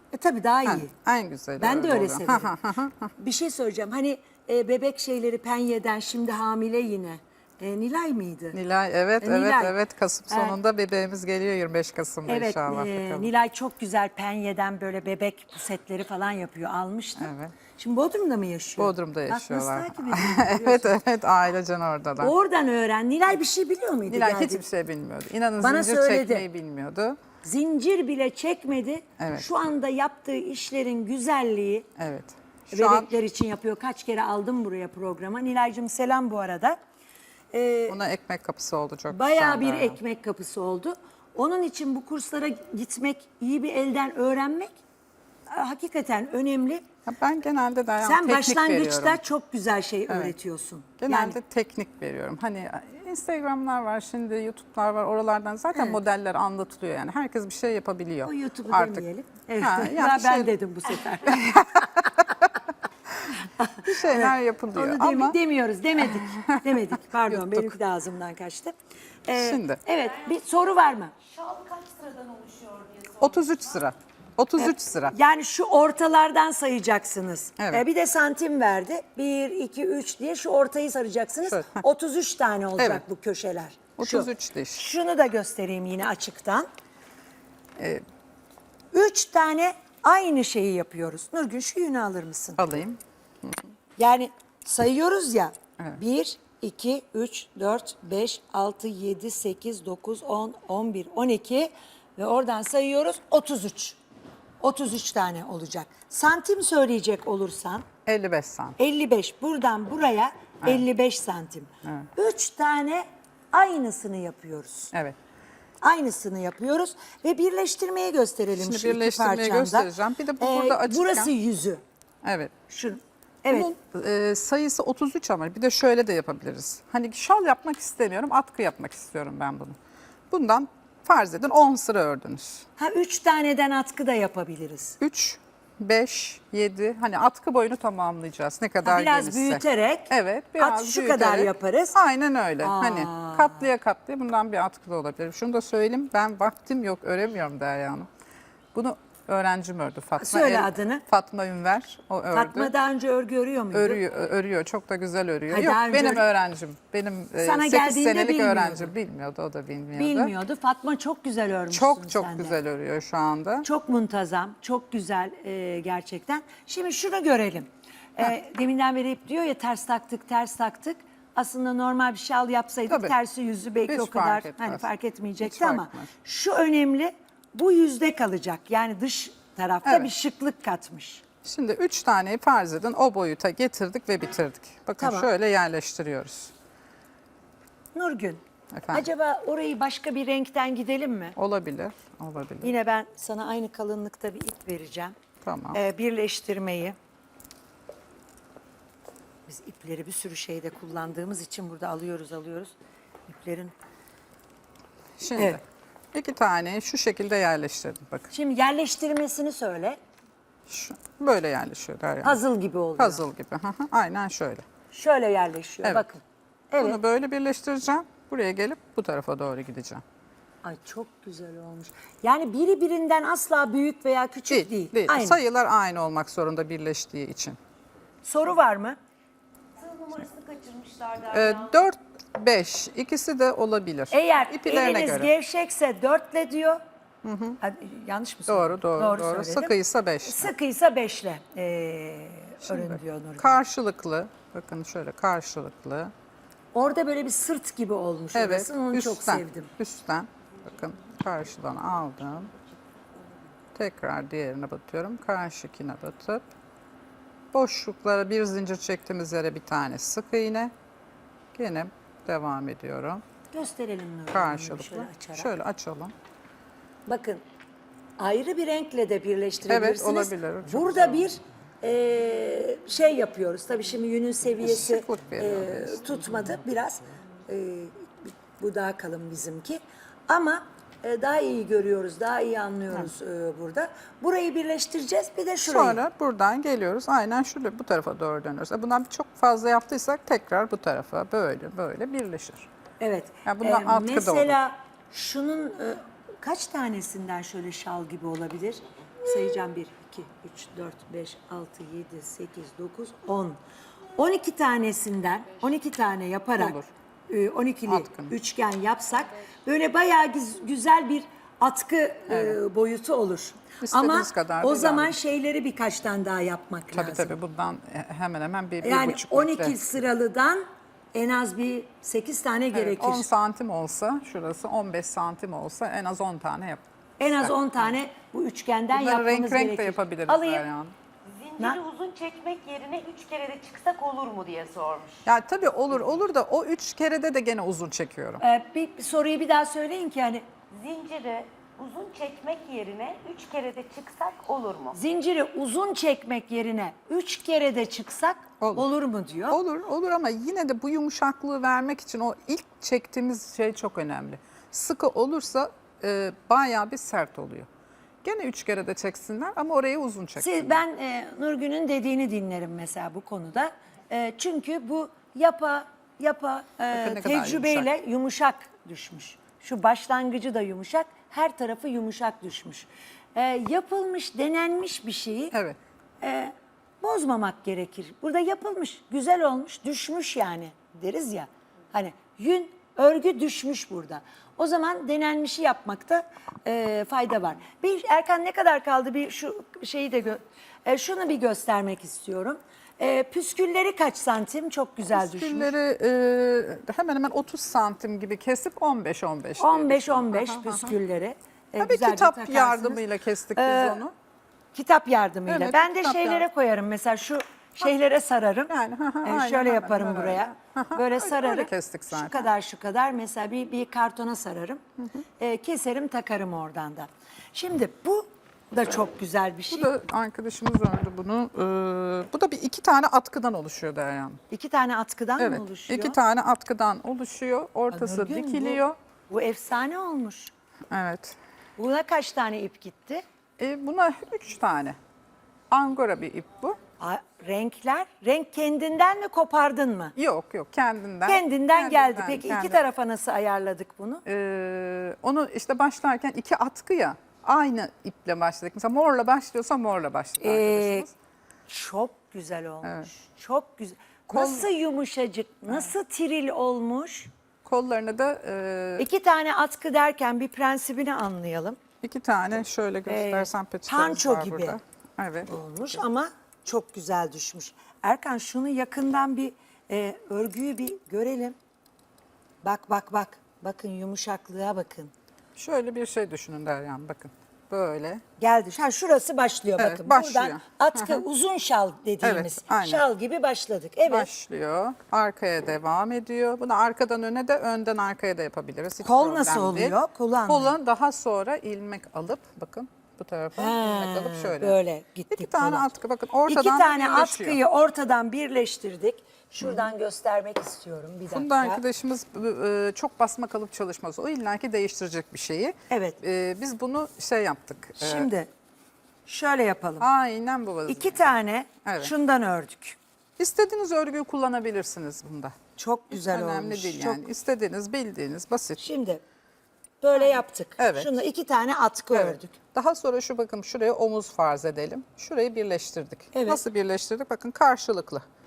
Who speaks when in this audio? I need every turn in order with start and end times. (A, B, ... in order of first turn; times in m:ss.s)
0:00.1-0:00.9 A
0:00.6-0:03.1 B
0:01.6-0:02.5 A
0:03.2-0:08.6 A
0:08.5-0:13.3 B
0:09.2-0:09.7 A
0:10.3-0:10.6 A
0:12.2-0:21.0 A
0:17.2-0:17.5 B
0:18.8-0:22.3 B
0:22.2-0:24.6 A
0:24.1-0:27.2 B
0:25.6-0:26.4 A
0:27.4-0:31.9 A
0:29.2-0:29.5 B
0:32.0-0:33.1 B
0:32.7-0:36.8 A
0:37.5-0:38.0 A
0:37.9-0:40.0 B
0:39.1-0:44.8 A
0:45.5-0:46.8 A
0:47.0-0:49.2 B
0:48.0-0:51.4 A
0:50.1-0:50.3 B
0:51.0-0:59.0 B
0:58.2-1:02.3 A
0:59.6-1:00.5 B
1:01.2-1:05.4 B
1:03.4-1:08.7 A
1:06.0-1:07.7 B
1:09.3-1:11.1 A
1:09.4-1:09.8 B
1:11.2-1:13.7 C
1:13.2-1:15.1 B
1:14.6-1:26.7 A
1:17.6-1:17.8 B
1:21.4-1:21.7 B
1:22.8-1:23.0 B
1:24.0-1:24.8 B
1:27.8-1:28.0 B
1:28.9-1:32.6 A
1:32.6-1:33.6 B
1:34.0-1:44.0 A
1:44.6-1:47.8 A
1:48.0-1:48.8 B
1:48.8-1:54.9 A
1:55.8-2:01.8 A
1:58.6-2:01.3 B
2:02.2-2:02.5 B
2:02.7-2:03.7 A
2:03.5-2:09.8 B
2:10.3-2:12.7 B
2:12.8-2:15.0 A
2:15.0-2:28.1 B
2:18.8-2:22.0 A
2:22.6-2:23.6 A
2:28.7-2:32.7 B
2:30.2-2:31.0 A
2:32.3-2:34.0 A
2:33.7-2:40.3 B
2:35.5-2:36.2 A
2:37.4-2:38.9 A
2:39.9-2:42.5 A
2:41.7-2:43.7 B
2:43.6-3:01.2 A
2:52.9-2:53.1 B
2:53.9-2:54.8 B
2:55.4-2:56.1 B
2:59.8-3:00.1 B
3:01.4-3:06.5 B
3:05.0-3:05.3 A
3:07.9-3:11.4 A
3:08.7-3:09.0 B
3:11.4-3:12.8 B
3:12.6-3:15.1 A
3:15.4-3:15.8 B
3:15.7-3:17.0 A
3:19.5-3:22.7 A
3:23.3-3:23.7 A
3:25.2-3:25.6 B
3:26.1-3:28.3 B
3:28.3-3:30.0 A
3:30.7-3:32.4 B
3:32.2-3:33.2 A
3:33.0-3:34.6 B
3:34.9-3:37.0 A
3:36.8-3:40.0 B
3:40.6-3:45.4 A
3:44.5-3:47.6 B
3:48.2-3:49.0 A
3:49.8-3:51.8 C
3:51.3-3:55.3 B
3:54.1-3:56.8 A
3:57.2-3:57.6 B
3:57.6-4:03.6 A
3:58.5-4:00.5 B
4:02.6-4:06.1 B
4:06.7-4:09.7 A
4:08.3-4:12.5 B
4:13.7-4:16.5 B
4:17.5-4:20.7 B
4:21.5-4:23.2 B
4:23.5-4:25.5 A
4:24.3-4:26.1 B
4:27.0-4:27.4 A
4:28.2-4:46.0 A
4:29.7-4:31.3 B
4:34.6-4:36.1 B
4:45.6-4:52.7 B
4:53.0-5:03.6 A
4:53.4-4:54.6 B
5:04.1-5:06.8 A
5:06.6-5:06.9 B
5:07.3-5:17.3 A
5:07.9-5:08.3 B
5:12.3-5:12.6 B
5:13.8-5:15.2 B
5:16.9-5:19.8 B
5:18.8-5:23.3 A
5:22.7-5:27.5 B
5:27.2-5:30.6 A
5:28.9-5:30.9 B
5:31.2-5:35.3 C
5:35.2-5:38.4 B
5:38.4-5:40.5 A
5:40.7-5:45.0 C
5:44.9-5:49.6 A
5:48.6-5:48.9 B
5:49.5-5:57.7 B
5:58.2-6:00.8 B
6:00.4-6:15.6 A
6:06.9-6:07.9 B
6:15.5-6:15.8 B
6:16.2-6:35.7 A
6:35.1-6:40.9 B
6:39.6-6:43.0 A
6:41.8-6:44.1 B
6:43.5-6:44.0 A
6:44.7-6:48.7 A
6:45.5-6:46.5 B
6:48.7-6:52.5 B
6:49.2-6:54.8 A
6:55.4-6:59.9 A
6:59.7-7:04.4 B
7:04.5-7:06.2 A
7:05.4-7:09.0 B
7:07.9-7:10.5 A
7:10.9-7:11.4 B
7:11.8-7:13.2 A
7:13.6-7:15.0 B
7:15.7-7:16.8 B
7:17.0-7:20.1 A
7:20.2-7:22.8 B
7:21.3-7:24.2 A
7:24.2-7:31.1 B
7:30.4-7:31.1 A
7:31.7-7:37.3 A
7:32.8-7:33.1 B
7:34.3-7:34.7 B
7:37.6-7:39.1 B
7:39.0-7:41.8 A
7:42.0-7:45.5 B
7:43.1-7:44.8 A
7:45.4-7:51.6 A
7:52.6-7:55.1 A
7:55.6-7:58.2 B
7:58.4-8:04.3 A
7:59.8-8:01.2 B
8:02.2-8:03.0 B
8:04.1-8:14.8 B
8:09.0-8:10.7 A
8:13.6-8:15.9 A
8:15.3-8:17.6 B
8:16.4-8:21.8 A
8:19.6-8:19.8 B
8:21.3-8:28.3 B
8:25.9-8:26.2 A
8:28.0-8:28.5 A
8:29.2-8:30.1 A
8:30.0-8:31.2 B
8:30.9-8:33.0 A
8:31.8-8:32.1 B
8:33.4-8:35.6 B
8:35.8-8:37.3 A
8:36.1-8:38.8 B
8:38.8-8:39.2 A
8:40.0-8:42.6 A
8:40.8-8:41.1 B
8:42.1-8:48.2 B
8:46.3-8:46.6 A